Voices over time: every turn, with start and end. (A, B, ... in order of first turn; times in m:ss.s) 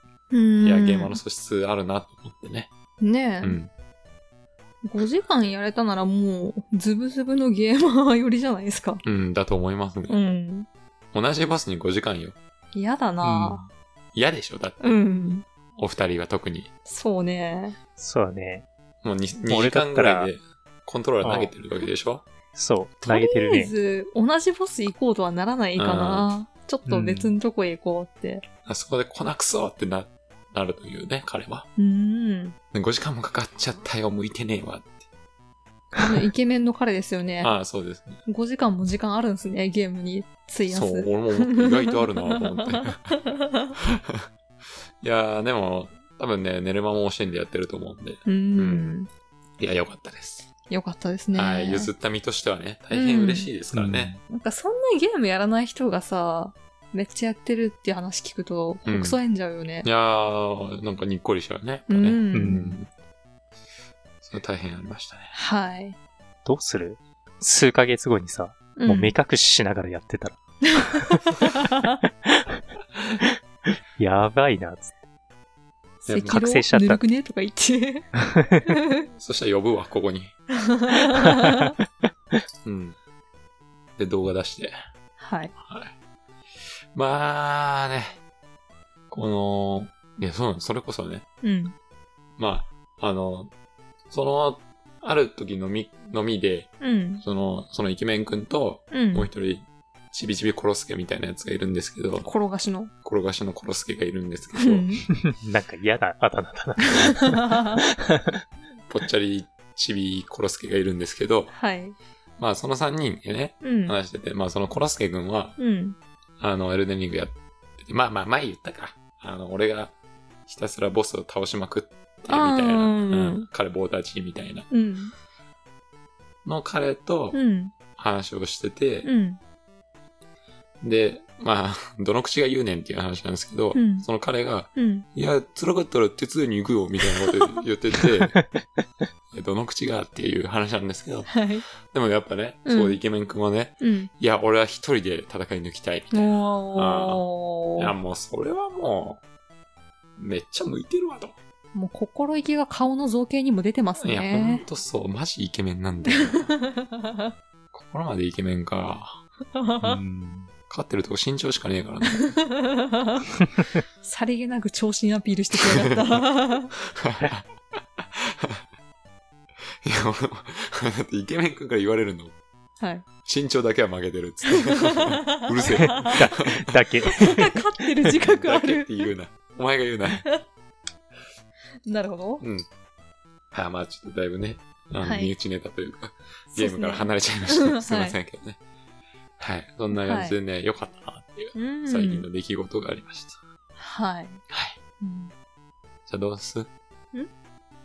0:00.3-0:01.2 A
0:00.6-0:02.7 B
0:03.0-0:03.6 A
0:03.4-0:03.7 B
0:04.8-0:09.0 A
0:09.0-0:10.2 B
0:10.1-0:10.7 A
0:11.1-0:12.4 B
0:12.7-0:13.6 A
0:13.2-0:13.7 C
0:14.1-0:15.0 B
0:14.8-0:15.4 A
0:15.8-0:16.7 B
0:16.9-0:17.8 A
0:18.0-0:18.7 C
0:19.0-0:22.2 B
0:19.5-0:20.3 C
0:21.2-0:21.5 C
0:22.5-0:23.7 C
0:23.1-0:28.4 A
0:25.8-0:26.3 B
0:26.9-0:27.3 C
0:28.7-0:31.7 B
0:31.8-0:32.6 A
0:32.7-0:35.0 B
0:36.0-0:37.5 A
0:37.4-0:38.2 B
0:38.3-0:43.8 A
0:40.7-0:44.3 B
0:45.0-0:49.0 B
0:48.3-0:49.1 A
0:49.6-0:50.5 B
0:50.7-0:51.9 A
0:51.3-0:54.2 B
0:52.9-0:53.5 A
0:53.7-0:54.2 C
0:54.3-0:59.9 A
0:58.9-0:59.2 B
0:59.8-1:02.9 B
1:01.9-1:02.6 A
1:02.3-1:02.8 C
1:04.2-1:05.3 B
1:05.3-1:06.0 A
1:06.4-1:11.2 C
1:08.8-1:09.2 A
1:10.8-1:12.0 A
1:14.0-1:14.9 C
1:16.0-1:18.1 A
1:16.1-1:16.4 B
1:16.2-1:17.0 C
1:18.7-1:19.1 A
1:19.2-1:20.4 B
1:20.6-1:21.7 A
1:22.6-1:23.0 B
1:24.0-1:24.8 B
1:25.2-1:25.5 A
1:25.6-1:25.9 B
1:26.9-1:28.2 B
1:29.1-1:31.2 B
1:31.4-1:31.8 A
1:32.4-1:33.5 B
1:34.1-1:42.3 B
1:36.8-1:37.2 A
1:38.9-1:39.3 A
1:42.2-1:42.9 A
1:43.0-1:44.9 B
1:44.6-1:45.0 A
1:45.2-1:48.4 C
1:46.9-1:47.8 A
1:48.9-1:51.5 B
1:51.5-1:52.0 A
1:52.4-1:55.6 B
1:53.6-1:54.0 A
1:55.6-1:56.0 A
1:56.4-1:59.9 B
2:00.5-2:04.7 B
2:02.3-2:03.5 A
2:04.7-2:05.1 A
2:06.4-2:07.4 B
2:07.3-2:07.7 A
2:08.0-2:09.1 B
2:09.0-2:09.4 A
2:10.8-2:18.4 B
2:13.8-2:14.1 A
2:14.8-2:15.1 A
2:19.3-2:27.3 B
2:21.3-2:21.6 A
2:22.7-2:23.0 A
2:23.8-2:24.1 A
2:26.1-2:27.9 A
2:27.8-2:29.2 B
2:30.2-2:31.3 B
2:31.8-2:34.6 A
2:34.0-2:36.6 B
2:36.1-2:37.2 A
2:37.7-2:39.2 B
2:39.6-2:40.0 A
2:39.8-2:40.5 C
2:40.7-2:42.3 B
2:42.2-2:43.2 A
2:44.0-2:46.7 A
2:45.6-2:46.2 B
2:46.8-2:48.6 B
2:49.8-2:52.4 B
2:52.8-2:53.0 A
2:53.2-2:57.4 B
2:54.5-2:56.2 A
2:55.8-2:57.5 C
2:57.1-2:59.1 A
2:58.2-3:00.3 B
3:01.9-3:02.4 A
3:02.4-3:02.7 B
3:03.5-3:08.6 B
3:05.0-3:05.3 A
3:06.5-3:08.2 A
3:09.4-3:13.4 B
3:09.9-3:10.4 A
3:11.6-3:12.2 A
3:13.8-3:14.4 A
3:14.5-3:14.8 B
3:15.0-3:15.3 A
3:16.1-3:16.7 B